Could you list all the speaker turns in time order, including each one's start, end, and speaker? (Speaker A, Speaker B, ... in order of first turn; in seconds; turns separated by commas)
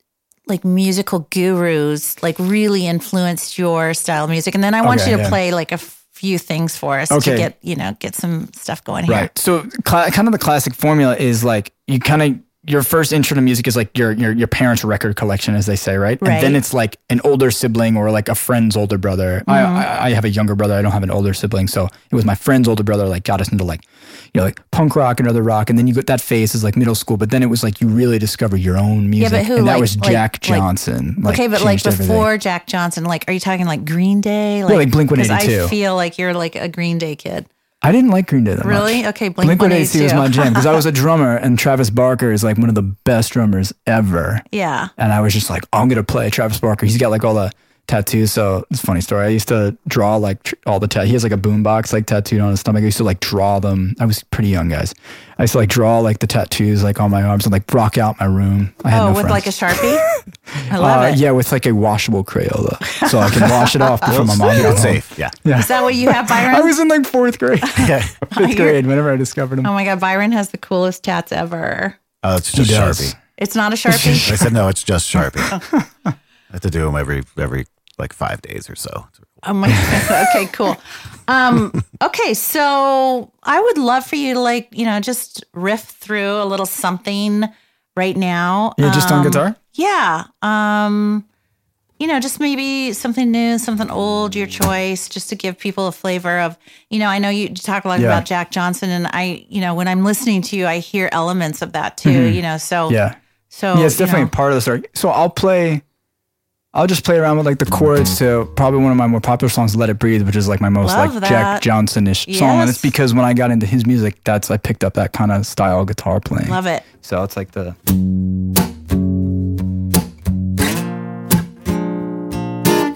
Speaker A: 0.5-9.3, Speaker B: 4.8-5.4, Speaker B: 7.1-7.5, Speaker B: 9.1-32.3, Speaker A: 16.2-16.6, Speaker A: 19.4-19.9, Speaker A: 29.2-30.7, Speaker A: 31.2-37.5, Speaker B: 34.7-35.7, Speaker B: 37.8-44.4, Speaker A: 38.6-40.7, Speaker A: 44.5-44.9, Speaker B: 45.0-69.7, Speaker A: 58.9-60.0, Speaker A: 60.7-61.2, Speaker A: 62.9-64.0, Speaker C: 64.0-65.3, Speaker A: 65.5-66.7, Speaker C: 67.8-68.1, Speaker A: 68.3-68.8, Speaker A: 69.6-72.0, Speaker C: 72.2-73.1, Speaker B: 72.5-73.2, Speaker A: 73.4-74.3, Speaker B: 73.9-74.5, Speaker C: 74.2-75.6, Speaker C: 76.5-79.3, Speaker A: 79.4-91.2, Speaker B: 88.8-89.6, Speaker A: 92.0-103.0, Speaker B: 98.0-98.2, Speaker B: 102.0-103.2, Speaker A: 103.5-104.3, Speaker B: 103.7-105.8, Speaker B: 106.7-117.8, Speaker A: 110.8-111.6, Speaker A: 112.3-112.9, Speaker A: 116.5-116.8